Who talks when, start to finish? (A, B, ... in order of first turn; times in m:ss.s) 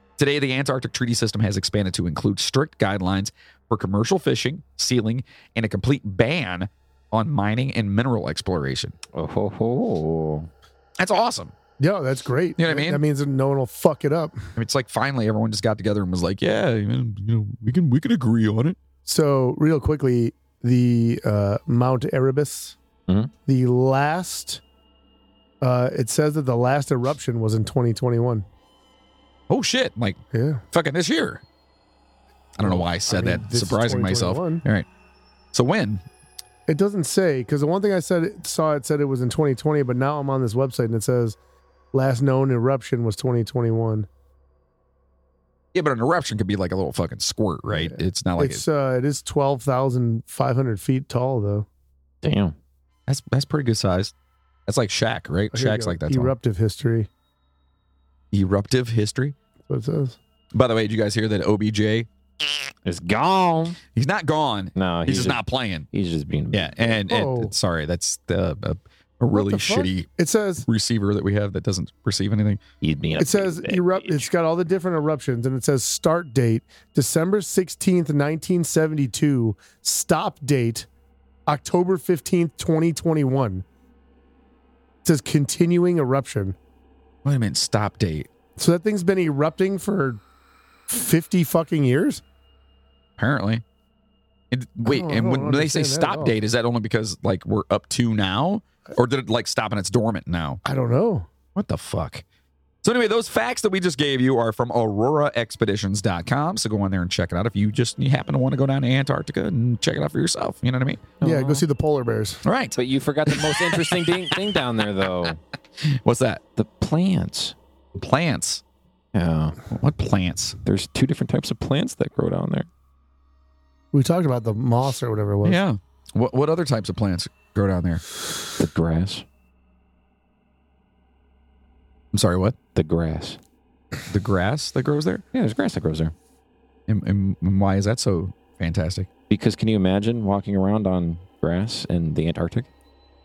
0:00.2-0:09.0 A
0:09.1-0:10.5 B
0:11.0-0:11.5 A
0:11.8-0:14.4 C
0:12.6-0:13.0 A
0:14.6-0:18.8 A
0:19.0-0:22.8 C
0:23.4-0:24.6 C
0:25.6-0:28.4 C
0:29.5-0:30.2 A
0:30.3-0:30.6 C
0:30.7-0:31.4 A
0:32.6-0:34.8 A
0:32.6-0:34.6 C
0:35.5-0:36.0 A
0:36.7-0:41.4 C
0:41.9-0:44.1 C
0:45.7-0:48.6 A
0:47.7-0:51.7 C
0:52.2-0:52.5 B
0:53.1-0:54.1 A
0:54.7-0:56.3 A
0:55.5-0:57.1 C
0:58.3-0:59.3 A
0:59.7-1:00.2 C
1:00.5-1:02.5 A
1:02.8-1:03.8 B
1:03.9-1:05.8 A
1:04.7-1:05.4 B
1:05.9-1:06.7 B
1:06.5-1:10.1 A
1:06.9-1:07.5 C
1:09.3-1:10.6 C
1:10.6-1:12.6 A
1:12.8-1:14.3 B
1:13.2-1:20.9 C
1:21.5-1:23.6 C
1:25.0-1:26.6 C
1:27.2-1:28.3 A
1:28.6-1:30.2 C
1:30.9-1:32.2 C
1:33.2-1:33.6 A
1:34.5-1:40.6 A
1:34.8-1:36.4 C
1:40.6-1:41.3 C
1:41.5-1:42.2 A
1:42.8-1:51.1 A
1:51.2-1:51.6 B
1:51.2-1:52.4 C
1:52.4-1:54.4 A
1:52.8-1:55.4 B
1:55.8-1:56.4 A
1:56.6-1:57.5 B
1:57.9-1:58.6 A
1:59.1-1:59.6 B
1:59.7-2:00.6 A
2:00.6-2:02.7 B
2:03.9-2:05.6 C
2:05.4-2:08.0 A
2:08.6-2:09.2 B
2:12.1-2:12.6 A
2:12.7-2:13.4 B
2:14.1-2:15.2 A
2:15.3-2:16.1 B
2:16.9-2:19.1 A
2:19.3-2:22.7 B